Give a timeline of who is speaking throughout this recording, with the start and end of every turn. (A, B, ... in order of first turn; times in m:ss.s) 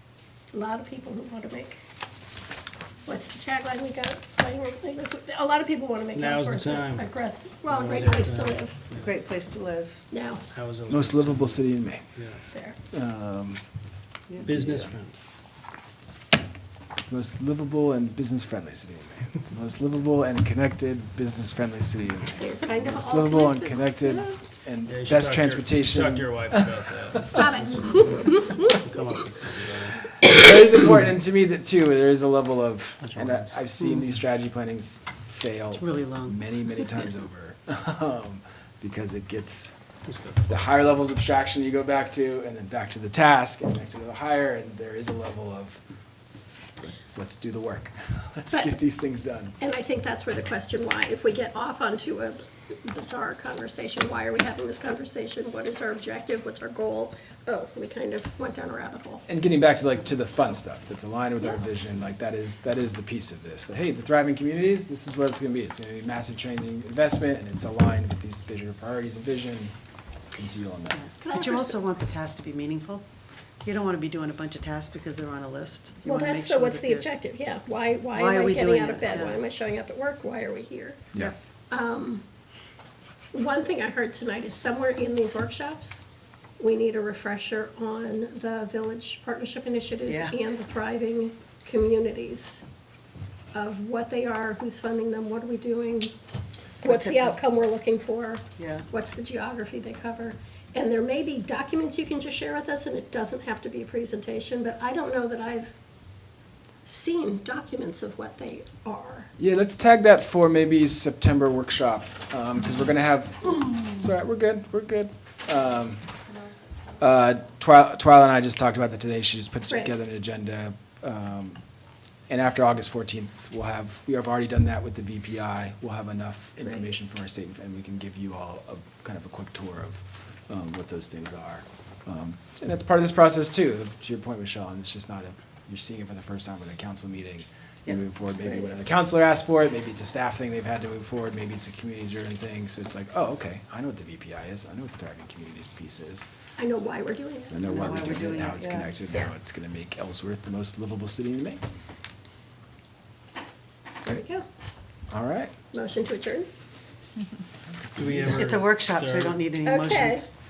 0:00.5-0:01.8 A
0:03.0-0:08.8 A
0:06.1-0:07.1 B
0:07.7-0:09.1 B
0:09.0-0:10.0 C
0:10.1-0:10.4 A
0:10.5-0:11.6 B
0:10.9-0:12.1 D
0:12.1-0:12.4 B
0:12.9-0:13.6 D
0:14.4-0:15.1 B
0:14.5-0:14.8 D
0:17.1-0:26.8 D
0:22.4-0:24.4 A
0:24.9-0:30.1 B
0:27.2-0:28.8 A
0:30.2-0:39.7 D
0:33.0-0:33.5 B
0:35.7-0:36.4 C
0:40.1-0:40.6 B
0:40.4-0:45.8 D
0:46.8-0:49.6 D
0:49.6-0:59.2 A
0:59.2-1:09.7 D
1:10.3-1:11.0 D
1:10.9-1:13.0 C
1:11.2-1:11.8 A
1:13.6-1:17.2 C
1:16.0-1:21.0 A
1:18.1-1:19.4 C
1:21.7-1:22.2 A
1:23.3-1:26.0 A
1:26.6-1:32.6 A
1:30.0-1:30.4 C
1:33.5-1:36.1 A
1:36.8-1:45.7 A
1:36.8-1:37.4 C
1:38.6-1:38.9 C
1:46.8-1:49.3 A
1:49.4-1:56.1 D
1:57.0-2:01.6 D
2:02.3-2:26.3 D
2:26.6-2:27.7 A
2:27.5-2:31.6 D
2:27.6-2:28.9 C
2:34.0-2:34.4 A
2:35.1-2:35.5 D
2:35.7-2:36.5 A
2:38.0-2:39.4 B
2:38.2-2:40.3 C
2:39.6-2:40.3 A